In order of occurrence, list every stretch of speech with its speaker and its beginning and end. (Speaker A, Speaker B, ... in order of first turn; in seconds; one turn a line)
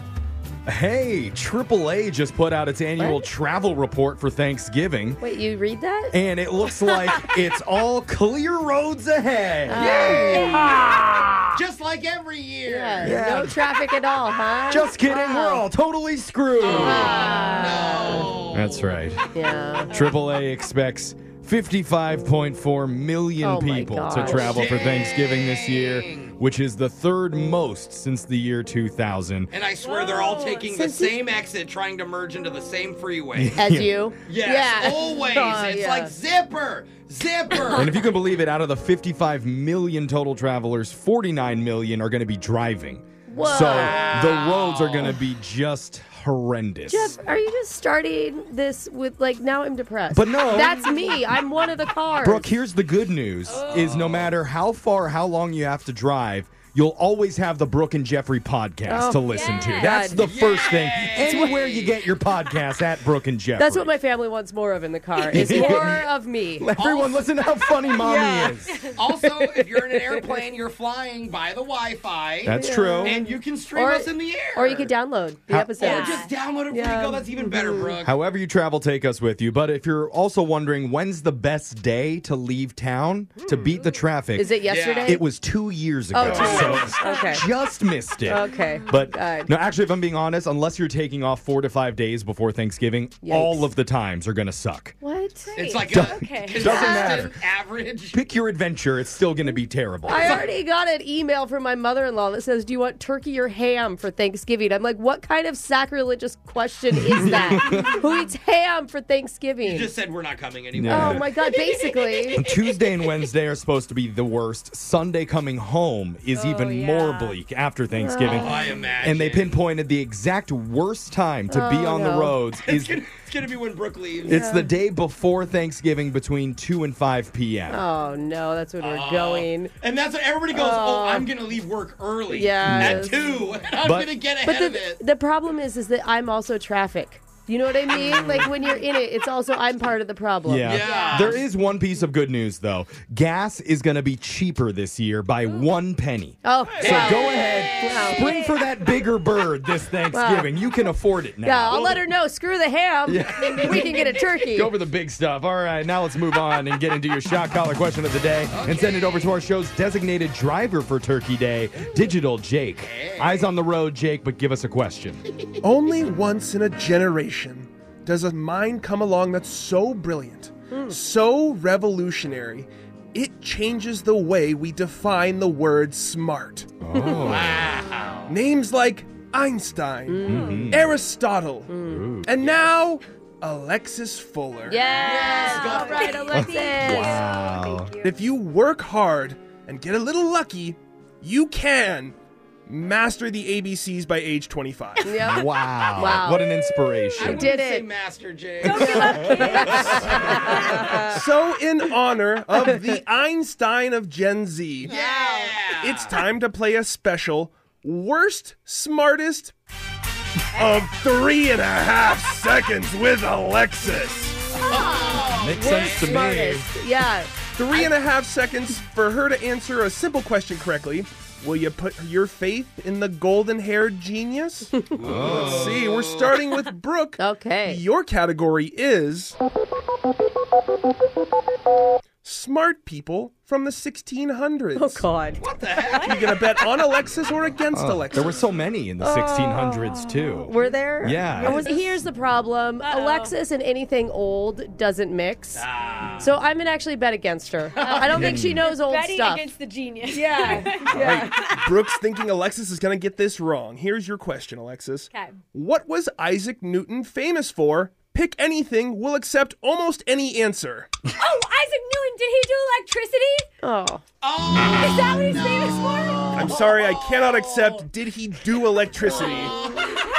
Speaker A: 0.7-5.2
Speaker B: 3.0-3.3
Speaker B: 5.2-6.2
Speaker A: 6.1-9.9
Speaker B: 9.7-10.7
Speaker C: 9.7-10.9
Speaker A: 10.8-11.3
Speaker C: 11.5-13.2
Speaker B: 12.6-15.6
Speaker A: 13.0-13.6
Speaker A: 14.7-17.2
Speaker C: 16.6-19.0
Speaker B: 16.7-18.4
Speaker A: 18.5-19.2
Speaker B: 19.3-19.9
Speaker D: 19.9-20.2
Speaker A: 19.9-29.5
Speaker B: 23.4-24.5
Speaker C: 24.2-26.3
Speaker C: 29.5-33.6
Speaker D: 29.8-30.6
Speaker B: 30.6-31.1
Speaker A: 33.4-34.0
Speaker B: 33.6-36.1
Speaker C: 34.3-38.0
Speaker D: 37.5-37.8
Speaker A: 37.7-47.2
Speaker B: 43.3-44.0
Speaker C: 43.6-45.2
Speaker B: 46.9-52.5
Speaker A: 50.1-51.2
Speaker A: 52.2-63.9
Speaker C: 53.5-54.3
Speaker B: 58.9-60.3
Speaker D: 59.3-60.0
Speaker C: 60.2-62.0
Speaker B: 61.2-61.7
Speaker B: 63.6-66.7
Speaker A: 65.3-66.0
Speaker D: 65.4-65.8
Speaker A: 66.6-68.7
Speaker C: 66.8-67.2
Speaker B: 67.9-68.6
Speaker C: 68.9-74.9
Speaker B: 69.2-70.4
Speaker A: 72.4-73.2
Speaker B: 72.5-77.9
Speaker D: 75.8-76.3
Speaker C: 75.8-78.2
Speaker A: 78.0-95.0
Speaker B: 84.4-85.2
Speaker C: 84.7-85.2
Speaker B: 86.1-87.4
Speaker C: 86.2-86.9
Speaker D: 86.4-87.4
Speaker B: 88.3-89.5
Speaker D: 88.4-88.9
Speaker B: 93.2-93.7
Speaker B: 95.0-95.6
Speaker D: 95.5-97.1
Speaker C: 95.5-98.2
Speaker A: 95.9-97.3
Speaker A: 98.1-100.4
Speaker B: 100.0-109.9
Speaker C: 100.2-100.5
Speaker A: 107.1-107.8
Speaker D: 107.8-108.0
Speaker C: 109.6-112.4
Speaker A: 110.7-111.2
Speaker B: 110.9-112.4
Speaker A: 112.3-123.0
Speaker D: 116.3-117.4
Speaker B: 118.0-118.8
Speaker C: 118.2-119.6
Speaker B: 121.5-122.3
Speaker C: 122.6-124.4
Speaker A: 124.2-127.8
Speaker B: 124.3-124.7
Speaker B: 127.7-129.7
Speaker C: 128.8-135.0
Speaker B: 130.5-131.3
Speaker B: 132.3-133.2
Speaker A: 132.6-133.1
Speaker A: 133.8-134.1
Speaker B: 134.4-140.8
Speaker C: 137.9-138.5
Speaker A: 140.4-152.0
Speaker C: 140.6-141.4
Speaker D: 140.8-141.3
Speaker B: 146.4-147.2
Speaker C: 146.8-148.0
Speaker B: 147.8-148.2
Speaker D: 148.0-148.6
Speaker B: 150.1-150.5
Speaker B: 151.4-154.7
Speaker A: 153.1-153.8
Speaker D: 153.5-154.2
Speaker A: 154.5-165.2
Speaker C: 158.5-159.3
Speaker C: 162.8-163.5
Speaker E: 165.6-176.7
Speaker B: 170.7-171.0
Speaker A: 176.8-177.7
Speaker B: 176.9-177.3
Speaker C: 177.2-178.3
Speaker E: 178.3-184.8
Speaker B: 180.1-180.7
Speaker A: 180.2-181.0
Speaker D: 180.3-180.6
Speaker B: 181.7-182.1
Speaker A: 181.9-182.3
Speaker C: 182.4-182.7
Speaker B: 184.7-187.2
Speaker C: 184.9-186.4
Speaker D: 184.9-188.1
Speaker A: 186.3-187.9
Speaker E: 188.0-192.2
Speaker E: 192.7-195.1
Speaker B: 195.0-196.5
Speaker A: 195.2-197.5
Speaker C: 197.2-200.6
Speaker B: 197.2-197.8
Speaker D: 198.6-200.9
Speaker B: 198.8-201.2
Speaker E: 201.1-204.9
Speaker C: 204.8-206.1
Speaker D: 204.9-205.5
Speaker E: 205.8-209.5
Speaker E: 210.6-214.4
Speaker B: 214.5-217.9
Speaker C: 214.7-216.3
Speaker A: 215.3-216.7
Speaker E: 217.6-229.3
Speaker C: 224.9-226.4
Speaker A: 225.0-225.8
Speaker B: 227.2-227.8
Speaker E: 232.2-235.1
Speaker B: 234.7-235.4
Speaker C: 235.4-236.5
Speaker D: 235.9-236.2
Speaker E: 236.1-238.4
Speaker A: 237.7-241.6
Speaker B: 239.0-245.6
Speaker D: 240.6-242.0
Speaker D: 242.8-243.3
Speaker C: 245.5-246.3
Speaker B: 246.2-249.5
Speaker C: 247.8-248.3
Speaker A: 248.1-248.6
Speaker D: 248.6-252.0
Speaker B: 250.1-251.6
Speaker E: 250.9-260.9
Speaker D: 255.1-255.4
Speaker D: 261.2-263.4
Speaker B: 263.6-264.0
Speaker C: 264.2-267.9
Speaker D: 264.5-266.4
Speaker E: 266.4-269.5
Speaker C: 269.0-270.0
Speaker D: 269.1-269.5